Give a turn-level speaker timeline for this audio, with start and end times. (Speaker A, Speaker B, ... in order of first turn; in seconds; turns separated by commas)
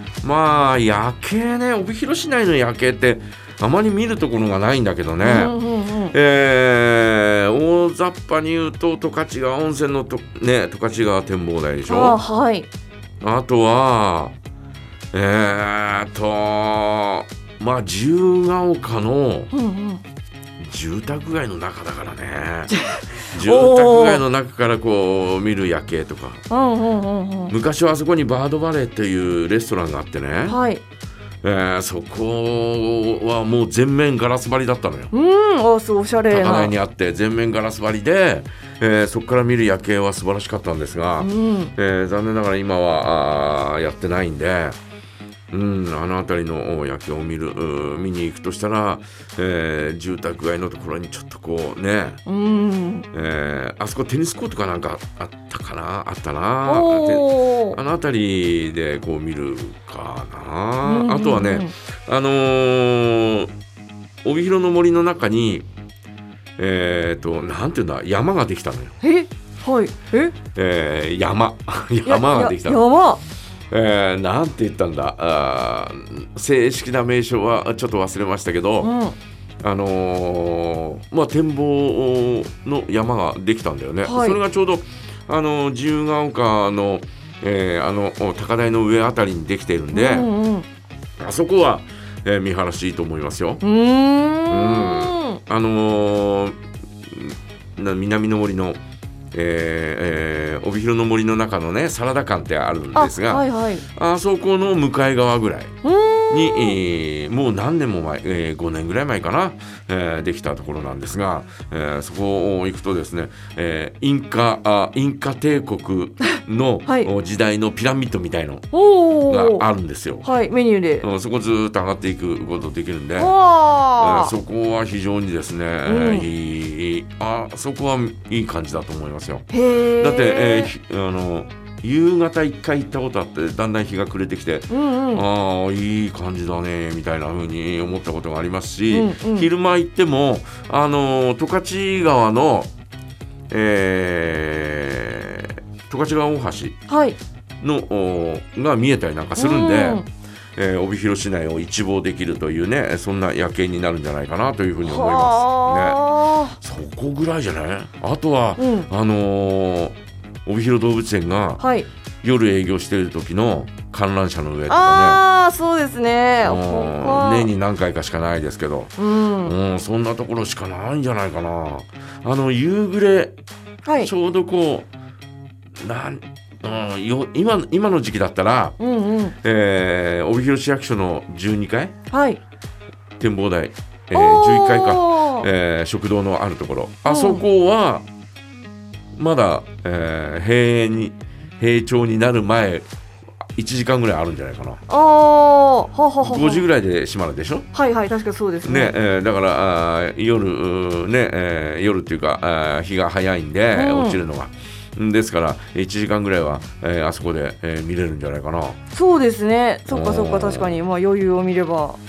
Speaker A: 0.2-5.5, Speaker B: 5.2-6.1, Speaker A: 6.1-12.2, Speaker B: 11.9-12.7, Speaker A: 13.2-14.4, Speaker A: 15.1-19.5, Speaker B: 19.5-20.0, Speaker A: 20.6-22.7, Speaker B: 22.7-24.2, Speaker A: 23.3-26.4, Speaker B: 26.5-27.5, Speaker A: 27.5-30.6, Speaker B: 30.5-30.8, Speaker A: 31.4-35.1, Speaker B: 35.1-36.7, Speaker A: 36.3-44.8, Speaker B: 41.2-41.7, Speaker A: 45.5-52.2, Speaker B: 52.3-53.1, Speaker A: 53.1-63.5, Speaker B: 56.6-57.8, Speaker B: 60.8-61.7, Speaker A: 64.2-65.7, Speaker A: 66.6-69.0, Speaker B: 69.0-70.4, Speaker A: 70.5-72.8, Speaker B: 72.1-73.2, Speaker A: 73.7-78.9, Speaker B: 78.8-79.2, Speaker A: 79.6-90.3, Speaker B: 84.0-84.4, Speaker B: 89.9-90.7, Speaker A: 91.2-93.6, Speaker B: 93.6-95.4, Speaker A: 94.5-98.8, Speaker A: 99.3-105.8, Speaker B: 102.9-103.8, Speaker B: 105.8-106.8, Speaker A: 106.3-118.7, Speaker B: 118.7-119.7, Speaker A: 119.3-120.3, Speaker B: 120.2-121.1, Speaker A: 121.0-123.3, Speaker B: 123.2-124.3, Speaker A: 124.0-129.5, Speaker B: 125.8-126.3, Speaker B: 129.5-130.7, Speaker A: 130.0-142.7, Speaker B: 134.7-135.2, Speaker B: 138.9-139.5, Speaker A: 143.5-146.8, Speaker B: 146.9-147.2, Speaker A: 147.6-150.0, Speaker B: 149.4-150.1, Speaker A: 150.6-161.6, Speaker B: 154.8-156.6, Speaker B: 158.6-158.9, Speaker B: 161.6-161.9, Speaker A: 162.2-165.2, Speaker B: 164.7-167.5, Speaker A: 166.4-173.3, Speaker B: 169.0-169.5, Speaker B: 173.8-174.1, Speaker A: 174.0-174.9, Speaker A: 175.8-178.8, Speaker B: 178.8-179.4, Speaker A: 179.4-181.9, Speaker B: 182.1-182.4, Speaker A: 183.2-188.1, Speaker B: 184.1-185.5, Speaker B: 187.1-187.4, Speaker A: 189.2-192.9, Speaker A: 193.6-194.8, Speaker B: 194.9-196.7, Speaker A: 196.2-197.7, Speaker B: 197.7-198.9, Speaker A: 198.6-208.8, Speaker B: 203.7-204.2, Speaker B: 208.9-212.0, Speaker A: 209.9-210.8